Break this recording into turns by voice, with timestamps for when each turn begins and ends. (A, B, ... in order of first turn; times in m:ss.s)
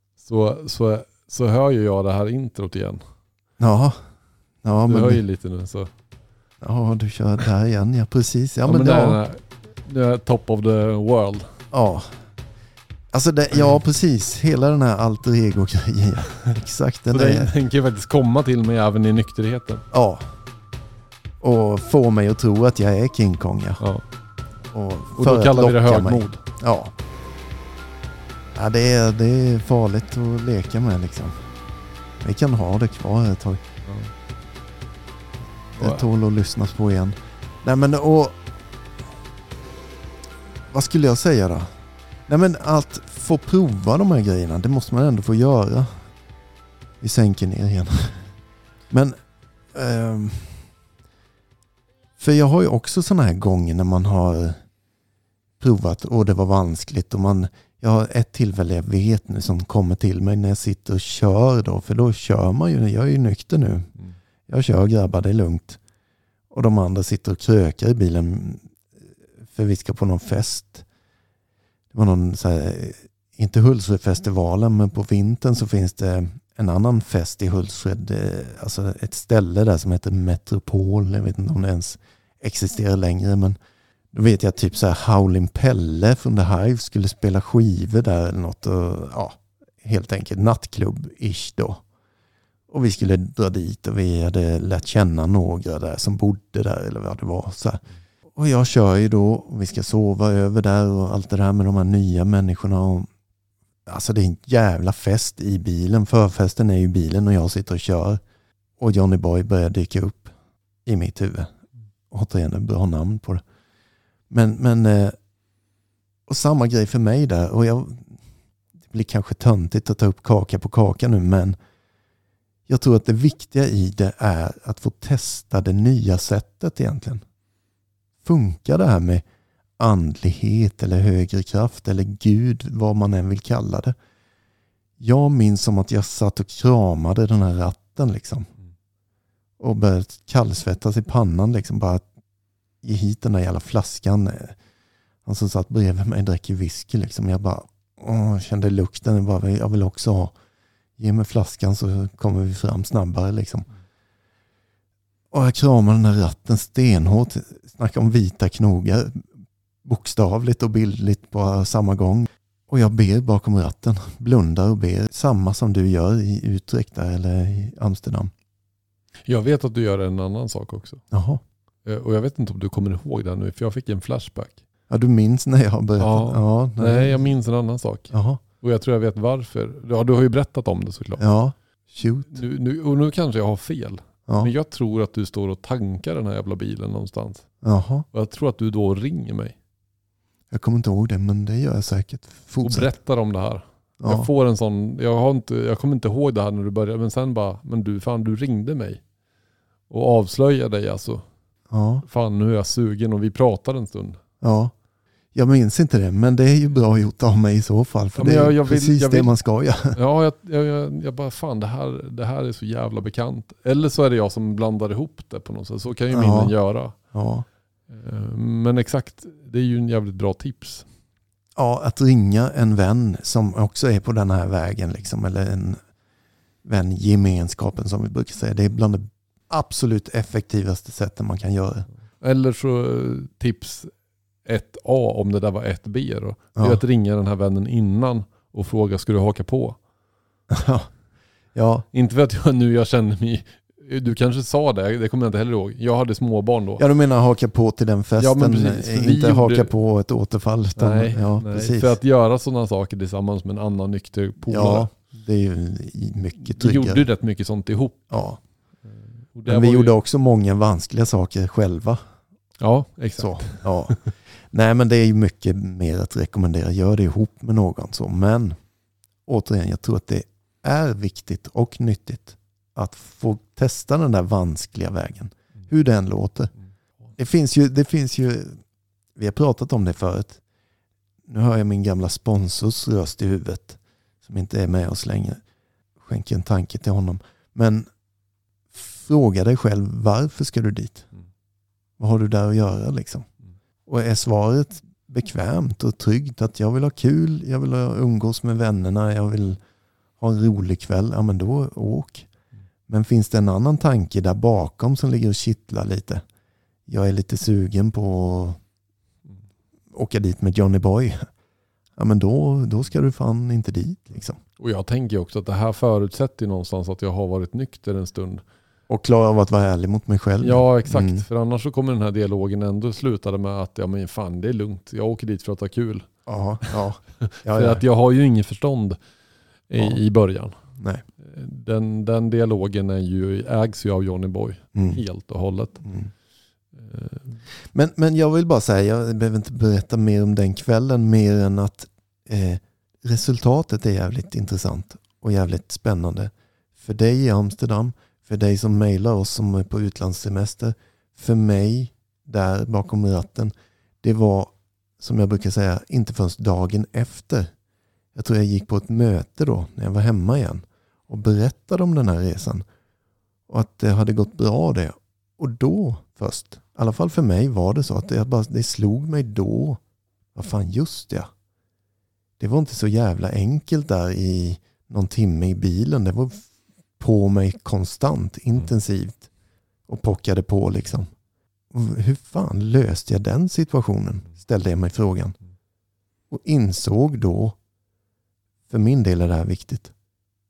0:00.2-0:03.0 A
0:03.6-0:04.0 B
0:04.6-0:05.2 B
0:04.8-0:05.9 A
0:06.6-0:09.2 B
0:08.6-0:11.5 A
0:11.7-0:12.1 B
0:13.1-0:17.5 B
0:17.1-0:19.8 A
0:19.9-0:20.3 B
0:21.4-0:23.8 B
0:23.8-0:24.0 A
0:24.7-0:26.9 B
0:25.2-0:26.4 A
0:28.5-0:31.5 B
0:32.2-0:33.6 B
0:33.8-0:34.1 A
0:35.8-0:38.4 B
0:35.8-0:36.0 A
0:40.7-0:41.7 B
0:42.3-0:46.1 B
0:47.0-0:48.3 B
0:48.9-0:49.2 B
0:49.7-0:50.7 B
0:52.2-0:54.6 B
0:55.6-1:03.9 B
1:04.5-1:05.8 B
1:06.5-1:08.8 B
1:09.5-1:10.8 B
1:11.9-1:23.6 B
1:24.1-1:31.8 B
1:32.7-1:37.8 B
1:38.4-1:43.1 B
1:43.8-1:48.2 B
1:48.8-1:50.3 B
1:50.8-1:51.5 B
1:52.1-1:53.4 B
1:54.3-1:55.2 B
1:56.3-1:58.2 B
1:58.9-2:01.6 B
2:02.7-2:07.2 B
2:08.2-2:09.2 B
2:09.8-2:13.9 B
2:15.0-2:18.5 B
2:19.6-2:22.0 B
2:22.8-2:24.6 B
2:25.2-2:30.3 B
2:31.0-2:33.7 B
2:35.3-2:39.3 B
2:39.8-2:48.3 B
2:49.3-2:51.0 A
2:51.1-2:51.4 B
2:51.8-2:54.6 A
2:54.9-2:57.3 B
2:56.0-3:01.2 A
2:58.1-2:58.4 B
3:01.2-3:02.4 B
3:02.2-3:07.5 A
3:07.6-3:08.0 B
3:08.1-3:09.6 A
3:10.5-3:12.9 B
3:12.6-3:19.0 A
3:14.0-3:14.3 B
3:19.9-3:21.2 A
3:21.7-3:22.0 B
3:22.0-3:24.2 A
3:24.4-3:24.7 B
3:25.3-3:30.0 B
3:28.1-3:29.3 A
3:29.9-3:37.0 A
3:36.1-3:37.4 B
3:37.9-3:40.9 A
3:41.6-3:45.8 B
3:46.6-3:51.9 B
3:52.2-3:53.9 A
3:54.4-3:59.8 A
3:56.6-3:56.8 B
4:00.5-4:00.9 B
4:01.5-4:01.8 B
4:01.9-4:06.8 A
4:06.8-4:11.9 B
4:08.2-4:09.7 A
4:10.8-4:14.9 A
4:14.5-4:17.0 B
4:16.4-4:18.1 A
4:18.1-4:18.4 B
4:18.8-4:20.0 A
4:19.4-4:22.0 B
4:22.6-4:23.7 A
4:23.2-4:28.6 B
4:29.2-4:36.5 B
4:37.2-4:38.6 B
4:39.1-4:40.4 B
4:41.3-4:45.4 B
4:46.0-4:47.9 B
4:48.7-4:51.1 B
4:52.0-4:53.3 B
4:53.8-4:59.6 B
5:00.2-5:02.3 B
5:02.9-5:06.2 B
5:06.9-5:08.6 B
5:09.9-5:11.3 B
5:12.0-5:14.4 B
5:14.6-5:18.4 A
5:18.9-5:21.2 B
5:20.4-5:26.1 A
5:26.2-5:27.8 B
5:26.6-5:29.0 A
5:29.7-5:30.6 A
5:30.8-5:31.0 B
5:31.2-5:35.8 A
5:34.7-5:35.0 B
5:35.8-5:36.1 B
5:36.7-5:37.4 A
5:37.7-5:57.5 B
5:58.1-6:02.6 B
6:03.5-6:09.8 B
6:10.3-6:11.3 B
6:12.4-6:16.5 B
6:17.0-6:19.3 B
6:19.9-6:21.1 B
6:21.7-6:25.4 B
6:26.3-6:27.6 B
6:28.7-6:29.9 B